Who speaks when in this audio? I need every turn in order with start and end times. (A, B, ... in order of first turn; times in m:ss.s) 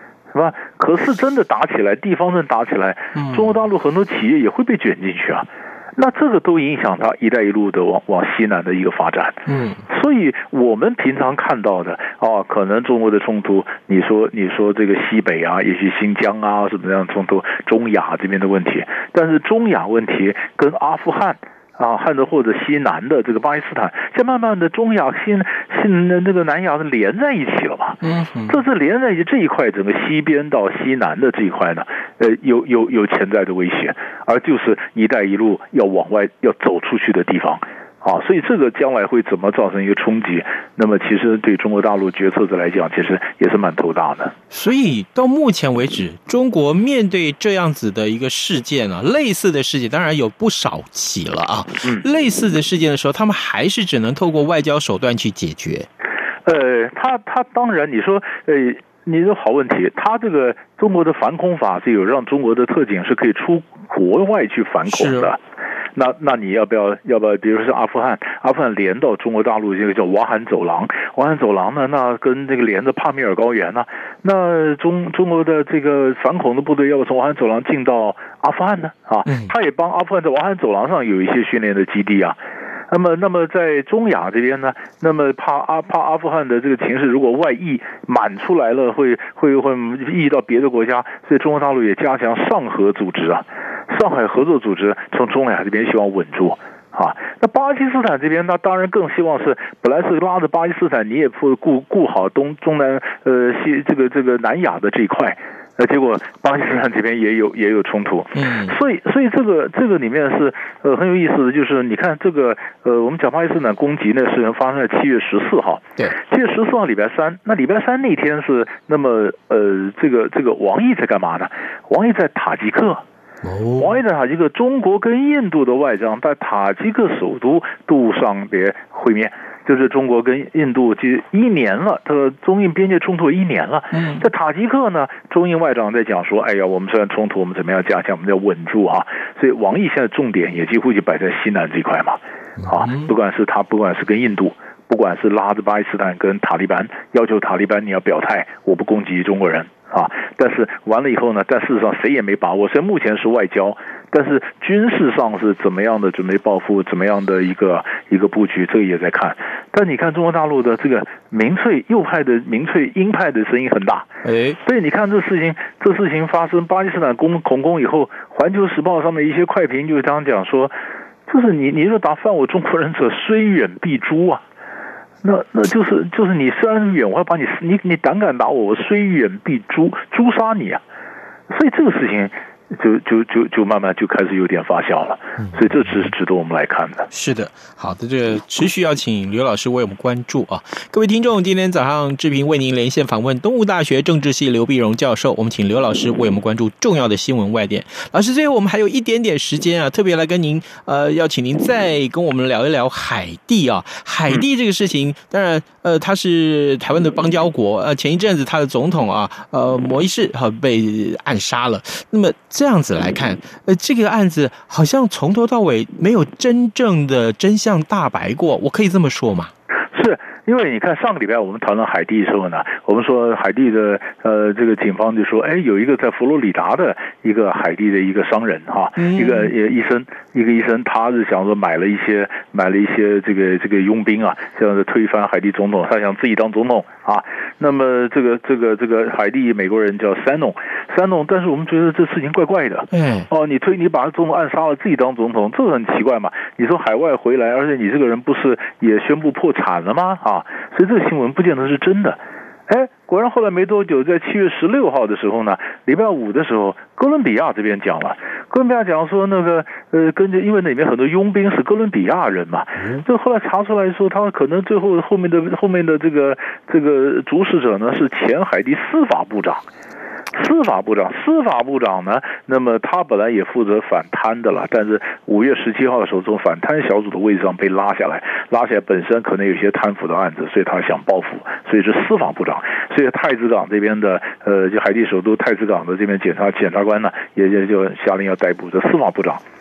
0:00.3-0:44.4 A
0:03.2-0:03.4 B
0:09.5-0:09.8 B
0:28.0-0:28.6 B
0:44.5-0:55.9 B
0:56.4-1:05.4 A
1:04.9-1:05.3 B
1:06.0-1:22.4 A
1:19.3-1:19.5 B
1:22.9-2:03.0 A
1:48.4-1:48.8 B
2:03.4-2:04.0 B
2:03.8-2:44.1 A
2:13.9-2:14.2 B
2:22.6-2:23.1 B
2:44.2-2:44.6 B
2:44.6-2:50.8 A
2:51.3-2:54.4 A
2:55.2-3:00.8 A
3:01.5-3:07.1 A
3:07.1-3:39.5 B
3:39.9-4:29.6 A
3:49.0-3:49.5 B
4:02.9-4:03.3 B
4:30.3-4:49.4 A